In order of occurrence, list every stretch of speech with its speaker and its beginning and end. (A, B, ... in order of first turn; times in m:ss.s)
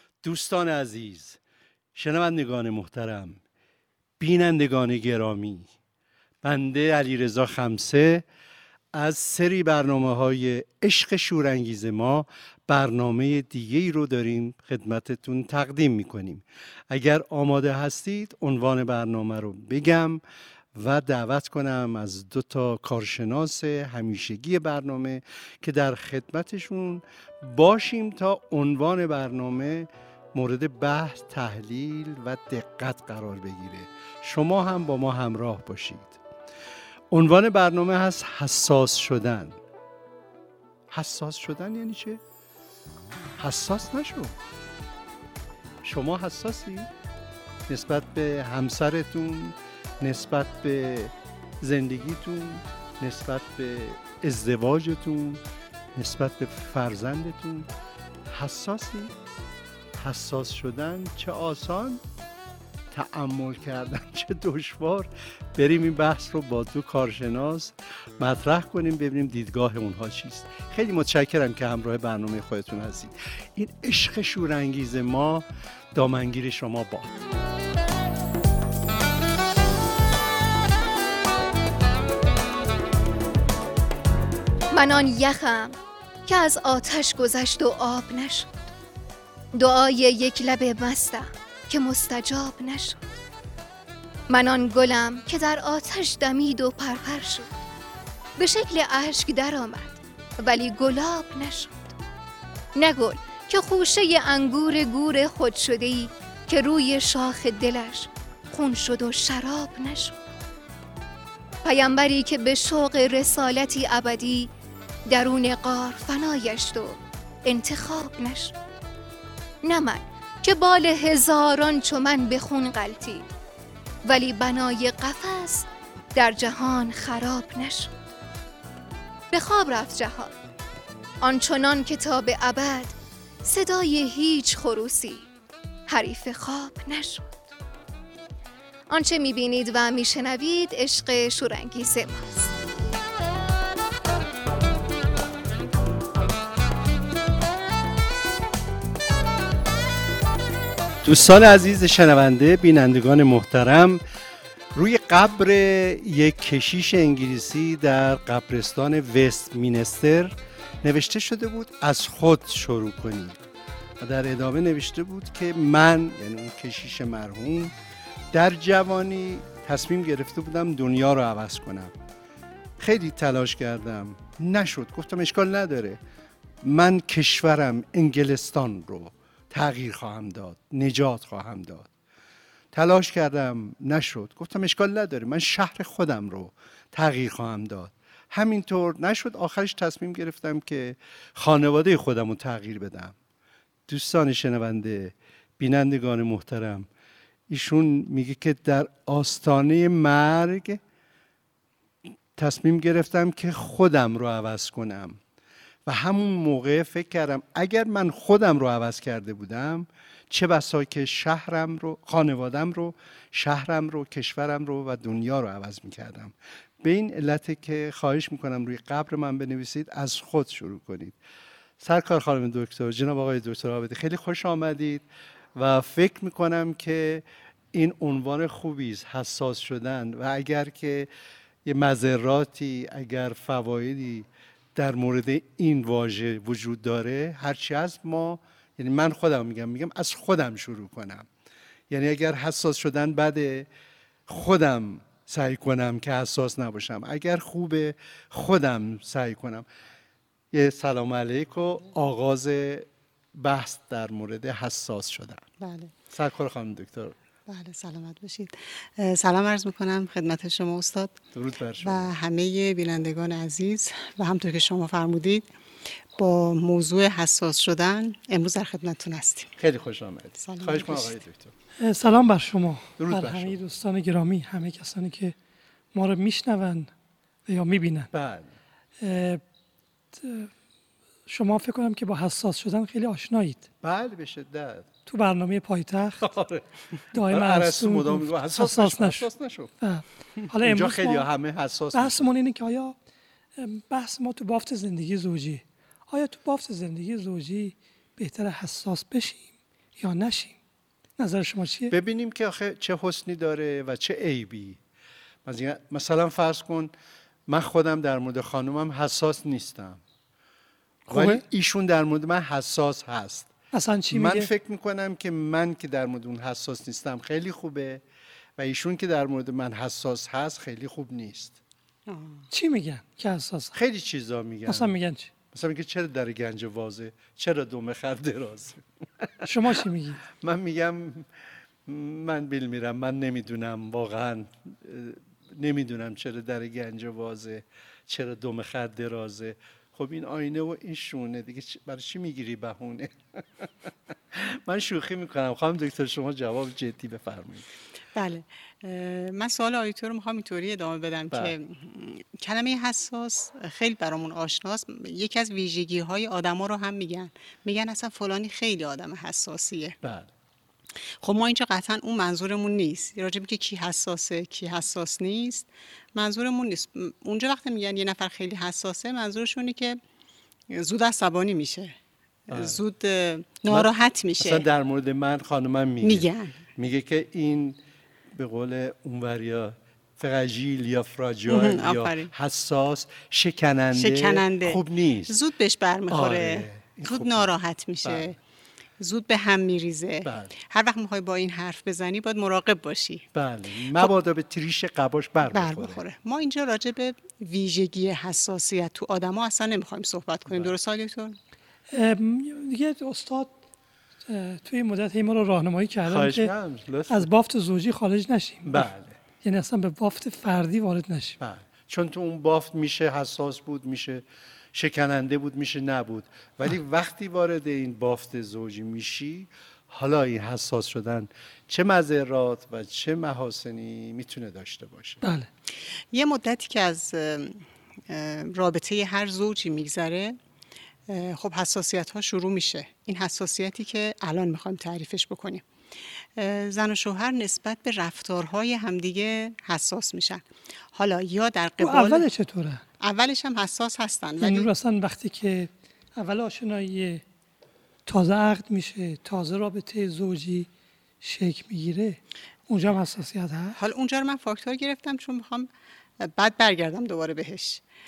0:00.2-0:01.4 A
0:01.9-0:03.4 A
0:04.2-0:05.7 A
0:06.4-0:08.2 A
0:08.9-0:20.2 A
0:20.7-0:36.2 A
0:37.1-0:39.6 A
0:40.9-0:42.2 A
0:43.4-0:44.4 A
0:45.8-0:46.9 A
0:47.7-0:55.4 A
0:55.9-0:57.7 A
0:58.3-0:59.1 A
1:00.0-1:02.0 A
1:02.9-1:17.2 A
1:24.7-1:28.7 B
1:29.5-1:33.0 B
1:34.3-1:37.5 B
1:38.4-1:41.9 B
1:42.8-1:50.2 B
1:51.6-1:54.5 B
1:55.1-1:58.5 B
1:59.6-2:03.2 B
2:04.0-2:07.9 B
2:09.3-2:10.3 B
2:11.2-2:15.2 B
2:15.9-2:17.4 B
2:18.9-2:22.5 B
2:31.0-2:34.0 A
2:34.7-2:43.4 A
2:44.0-2:47.7 A
2:48.3-2:51.9 A
2:52.8-2:56.0 A
2:56.6-3:01.9 A
3:02.7-3:13.1 A
3:13.9-3:16.9 A
3:17.5-3:20.8 A
3:22.4-3:25.2 A
3:25.8-3:41.2 A
3:41.8-3:45.0 A
3:45.5-3:51.1 A
3:51.6-4:01.3 A
4:01.9-4:03.7 A
4:04.3-4:09.6 A
4:10.5-4:15.4 A
4:15.6-4:15.9 C
4:16.1-4:17.2 A
4:17.5-4:21.2 C
4:21.3-4:22.1 A
4:21.8-4:25.5 C
4:26.1-4:29.5 C
4:29.6-4:31.5 A
4:30.4-4:31.2 C
4:31.8-4:35.4 D
4:33.0-4:33.6 A
4:35.9-4:36.9 D
4:37.4-4:38.1 D
4:38.1-4:38.5 A
4:39.0-4:39.4 D
4:40.1-4:40.5 D
4:41.2-4:43.6 D
4:43.8-4:44.9 A
4:45.1-4:46.3 D
4:46.2-4:46.6 A
4:47.1-4:49.3 D
4:47.2-4:49.7 A
4:49.8-4:51.2 D
4:50.5-4:52.3 A
4:51.9-4:52.9 D
4:53.6-5:00.6 D
5:01.2-5:01.9 D
5:01.9-5:04.8 A
5:05.4-5:06.9 A
5:07.5-5:10.0 A
5:11.1-5:13.5 A
5:11.1-5:11.4 D
5:13.7-5:14.5 D
5:14.1-5:18.0 A
5:18.6-5:21.6 A
5:22.1-5:22.4 C
5:22.5-5:23.7 D
5:23.7-5:24.9 A
5:24.6-5:25.3 D
5:25.5-5:29.5 A
5:29.4-5:30.2 D
5:30.3-5:31.3 A
5:31.9-5:47.7 A
5:48.1-6:00.0 C
6:00.0-6:00.3 A
6:01.2-6:10.0 C
6:10.7-6:11.9 C
6:12.5-6:14.6 C
6:12.5-6:12.8 A
6:13.7-6:17.8 A
6:16.0-6:16.6 C
6:18.3-6:25.3 A
6:21.5-6:22.3 C
6:23.9-6:28.3 C
6:26.1-6:27.5 A
6:28.0-6:28.3 A
6:29.0-6:33.3 C
6:30.2-6:30.5 A
6:33.3-6:36.0 A
6:35.5-6:41.4 C
6:40.5-6:40.8 A
6:41.9-6:43.5 D
6:44.3-6:46.5 D
6:46.0-6:47.3 A
6:47.1-6:48.8 D
6:48.6-6:49.2 A
6:49.4-6:51.4 D
6:51.4-7:05.2 A
7:05.2-7:05.5 D
7:06.1-7:10.4 C
7:11.1-7:15.6 C
7:16.4-7:22.3 C
7:21.8-7:22.8 D
7:23.0-7:24.7 C
7:24.4-7:27.2 D
7:28.0-7:30.7 D
7:31.2-7:33.8 D
7:33.7-7:37.8 C